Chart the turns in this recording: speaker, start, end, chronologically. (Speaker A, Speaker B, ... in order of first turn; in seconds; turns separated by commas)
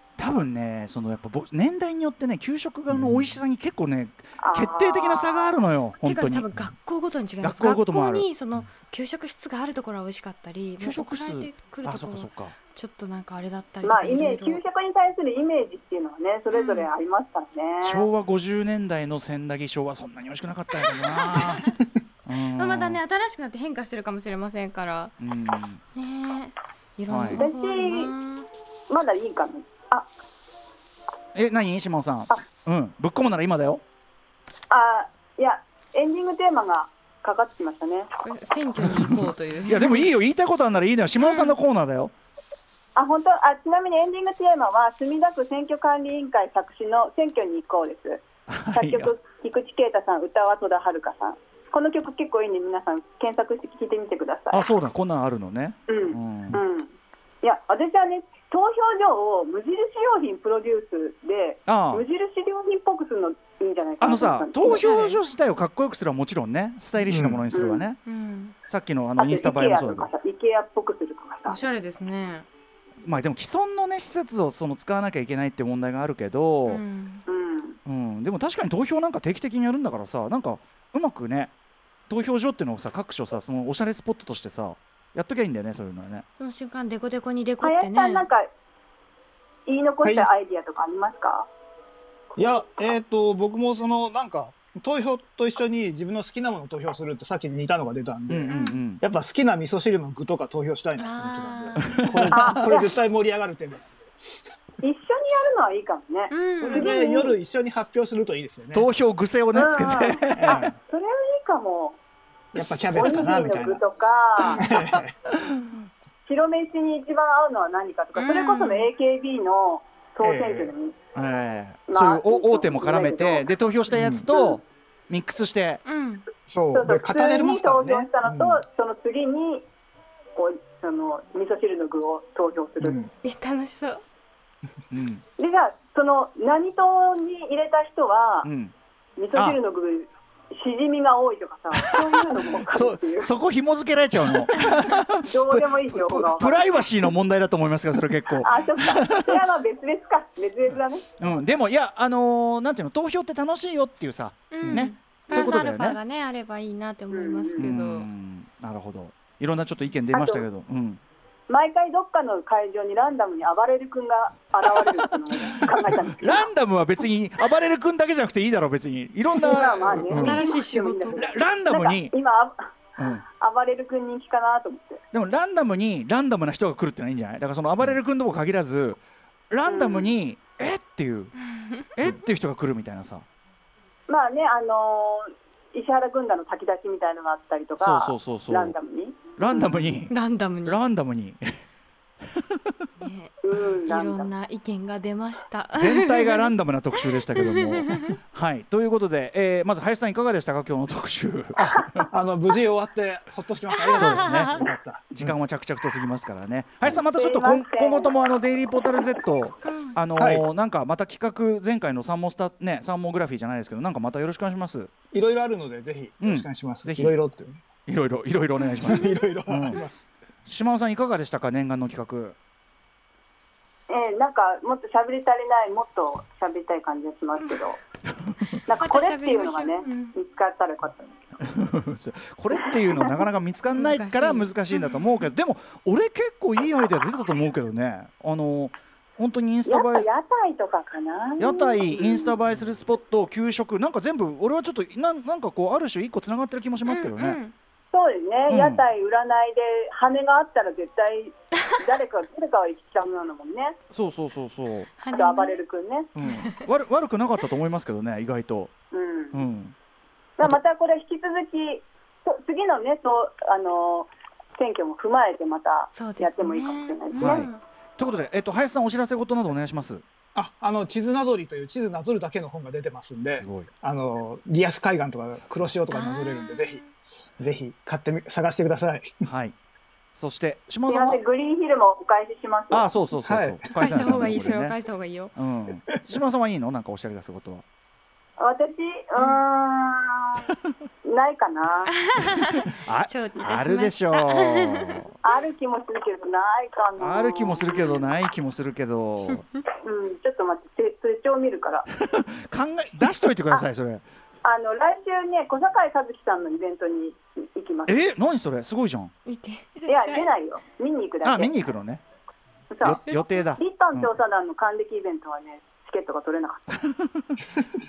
Speaker A: 0.2-6.5, Speaker B: 2.9-3.3, Speaker C: 4.4-5.5, Speaker D: 6.0-14.6, Speaker A: 7.4-8.3, Speaker A: 10.8-12.6, Speaker C: 13.8-18.1, Speaker D: 16.5-16.9, Speaker A: 17.8-23.0, Speaker D: 20.8-21.7, Speaker D: 22.4-25.1, Speaker A: 25.2-25.8, Speaker D: 25.9-28.5, Speaker A: 27.1-27.4, Speaker C: 27.3-28.1, Speaker C: 28.9-30.1, Speaker A: 31.3-33.8, Speaker C: 34.7-38.1, Speaker D: 38.2-40.1, Speaker A: 38.8-42.1, Speaker D: 41.2-41.5, Speaker C: 43.0-48.2, Speaker A: 48.5-49.1, Speaker C: 48.7-54.7, Speaker A: 54.5-56.6, Speaker C: 55.9-64.9, Speaker A: 61.7-62.0, Speaker A: 64.0-68.0, Speaker D: 64.6-65.2, Speaker B: 67.0-67.4, Speaker C: 67.5-67.8, Speaker D: 68.0-68.5, Speaker A: 68.7-70.1, Speaker C: 69.2-71.6, Speaker D: 71.5-72.5, Speaker A: 73.0-76.8, Speaker D: 76.7-77.2, Speaker C: 77.3-77.8, Speaker A: 77.8-81.5, Speaker A: 82.1-86.2, Speaker D: 86.4-88.2, Speaker C: 87.6-88.5, Speaker C: 89.7-91.5, Speaker B: 92.3-104.3, Speaker A: 98.3-99.0, Speaker D: 98.5-98.8, Speaker D: 101.0-101.9, Speaker A: 101.8-102.6, Speaker C: 102.3-102.9, Speaker C: 104.8-107.4, Speaker D: 106.3-106.9, Speaker B: 106.6-108.9, Speaker A: 108.7-110.6, Speaker C: 109.5-112.0, Speaker B: 110.3-110.8, Speaker B: 112.5-113.8, Speaker C: 112.9-114.7, Speaker B: 114.5-115.1, Speaker A: 115.3-115.9, Speaker C: 116.3-121.0, Speaker D: 118.2-118.9, Speaker B: 120.2-120.7, Speaker A: 121.1-125.8, Speaker C: 121.9-123.5, Speaker B: 123.9-124.2, Speaker C: 124.3-124.6, Speaker D: 125.8-126.2, Speaker B: 126.5-128.6, Speaker C: 126.7-129.7, Speaker C: 130.3-133.0, Speaker B: 132.8-133.1, Speaker D: 133.2-134.0, Speaker A: 134.9-135.2, Speaker C: 135.4-138.5, Speaker A: 138.4-138.7, Speaker C: 139.2-143.3, Speaker A: 141.8-149.4, Speaker C: 145.3-146.8, Speaker C: 148.4-151.1, Speaker A: 151.2-156.0, Speaker D: 154.5-158.1, Speaker B: 154.6-154.9, Speaker C: 155.3-155.5, Speaker C: 157.1-157.6, Speaker A: 157.6-161.0, Speaker C: 160.1-160.4, Speaker C: 161.5-166.5, Speaker A: 165.4-170.4, Speaker C: 169.4-172.6, Speaker D: 170.1-171.2, Speaker A: 171.2-172.1, Speaker A: 173.0-173.2, Speaker C: 173.4-175.0, Speaker A: 175.1-181.3, Speaker C: 179.7-180.1, Speaker D: 181.5-181.8, Speaker A: 181.9-183.2, Speaker C: 184.1-189.8, Speaker A: 187.8-188.7, Speaker A: 189.3-190.1, Speaker D: 190.1-190.8, Speaker A: 190.7-191.6, Speaker A: 192.3-192.7, Speaker D: 193.0-193.3, Speaker C: 193.4-194.3, Speaker D: 193.8-198.1, Speaker A: 195.8-202.1, Speaker B: 201.5-205.3, Speaker D: 203.8-204.6, Speaker A: 204.0-214.9, Speaker C: 207.1-208.2, Speaker D: 209.6-210.0, Speaker B: 210.2-210.4, Speaker B: 215.1-217.6, Speaker A: 216.2-217.2, Speaker A: 217.8-219.8, Speaker D: 218.6-218.9, Speaker B: 218.8-220.0, Speaker A: 220.4-222.3, Speaker C: 223.9-227.8, Speaker A: 228.3-228.5, Speaker C: 228.7-231.3, Speaker D: 228.8-230.2, Speaker A: 231.4-240.1, Speaker C: 232.5-233.1, Speaker D: 233.7-235.0, Speaker C: 239.7-242.3, Speaker A: 241.4-247.4, Speaker D: 246.9-247.5, Speaker C: 247.9-253.8, Speaker A: 248.5-248.8, Speaker A: 253.9-254.9, Speaker D: 255.0-255.6, Speaker C: 255.1-256.1, Speaker A: 256.1-258.7, Speaker D: 256.2-256.5, Speaker C: 258.9-259.4, Speaker A: 259.3-259.7, Speaker C: 260.4-267.5, Speaker D: 265.9-267.6, Speaker A: 267.2-270.0, Speaker B: 270.3-276.9, Speaker A: 273.4-273.7, Speaker D: 275.9-276.9, Speaker B: 277.4-279.1, Speaker A: 279.2-279.5, Speaker A: 280.1-281.2, Speaker C: 280.9-282.9, Speaker A: 282.7-284.8, Speaker B: 283.2-284.2, Speaker D: 283.8-285.3, Speaker A: 285.3-287.6, Speaker C: 288.4-290.4, Speaker C: 291.0-291.9, Speaker D: 291.9-295.0, Speaker A: 292.8-295.1, Speaker C: 295.2-298.1, Speaker A: 297.0-299.4, Speaker C: 299.8-301.9, Speaker A: 302.0-304.0, Speaker C: 304.4-308.0, Speaker A: 307.9-309.1, Speaker D: 309.2-310.3, Speaker C: 309.9-311.6, Speaker A: 311.2-312.0, Speaker C: 312.7-316.8, Speaker A: 312.8-314.1, Speaker D: 313.1-313.3, Speaker A: 316.8-317.5